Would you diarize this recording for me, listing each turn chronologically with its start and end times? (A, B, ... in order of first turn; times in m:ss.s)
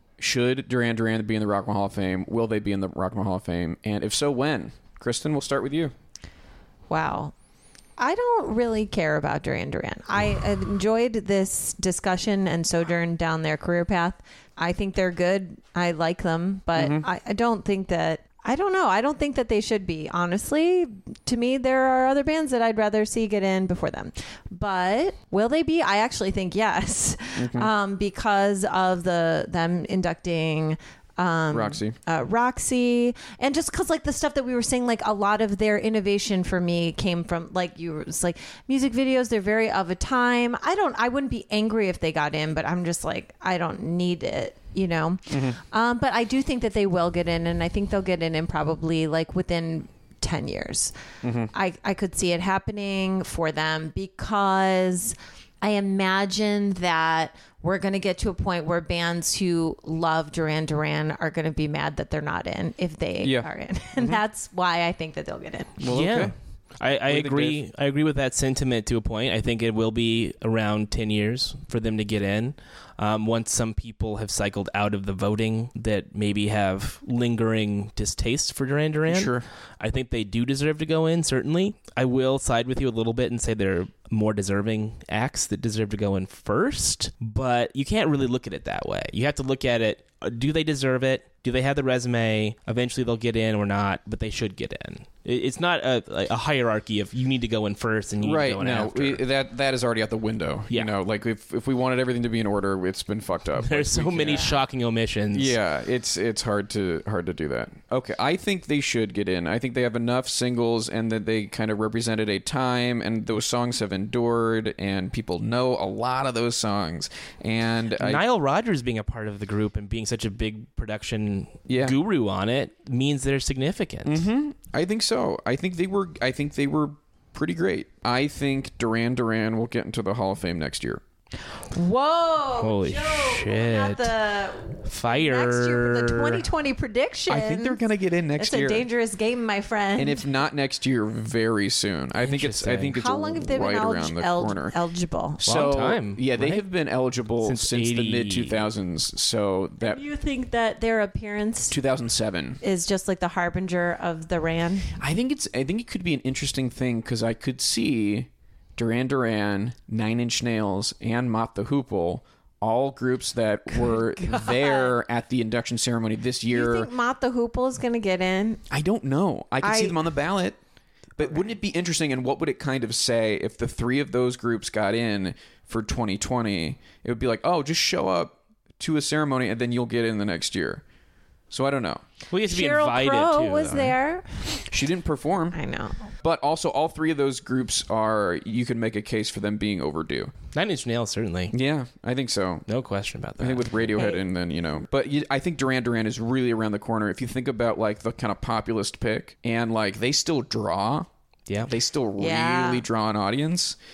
0:00.2-0:05.9 A
0:06.9-0:07.4 B
0:08.0-0:50.9 B
0:16.8-0:17.1 A
0:27.4-0:27.7 A
0:31.5-0:32.0 A
0:45.3-0:45.6 A
0:51.2-0:51.5 A
0:51.5-1:05.7 B
1:03.2-1:04.2 A
1:05.8-1:06.3 A
1:05.9-1:39.2 C
1:07.1-1:07.6 A
1:19.1-1:19.5 A
1:38.2-1:44.6 A
1:43.6-1:45.6 C
1:45.3-1:58.2 A
1:58.0-2:04.2 C
2:01.7-2:02.0 A
2:04.0-2:11.0 A
2:11.7-2:17.8 B
2:12.6-2:14.2 C
2:14.8-2:16.4 C
2:17.3-2:18.9 A
2:18.4-2:20.2 B
2:20.0-2:24.8 A
2:22.2-2:23.0 C
2:23.0-2:25.4 B
2:25.4-2:30.0 A
2:25.4-2:26.6 C
2:27.4-2:28.6 C
2:29.8-2:31.8 B
2:31.7-2:32.6 A
2:32.6-2:34.9 B
2:35.0-2:46.9 A
2:43.8-2:45.0 B
2:46.5-2:48.6 B
2:48.7-2:50.6 A
2:49.6-2:50.0 B
2:51.2-3:00.8 A
3:01.5-3:02.0 A
3:02.3-3:04.0 C
3:02.5-3:04.6 B
3:04.6-3:05.6 A
3:05.5-3:06.1 B
3:06.2-3:10.3 A
3:10.5-3:11.6 C
3:11.5-3:12.7 A
3:12.7-3:14.0 C
3:13.4-3:21.1 A
3:21.7-3:23.8 A
3:22.2-3:22.8 B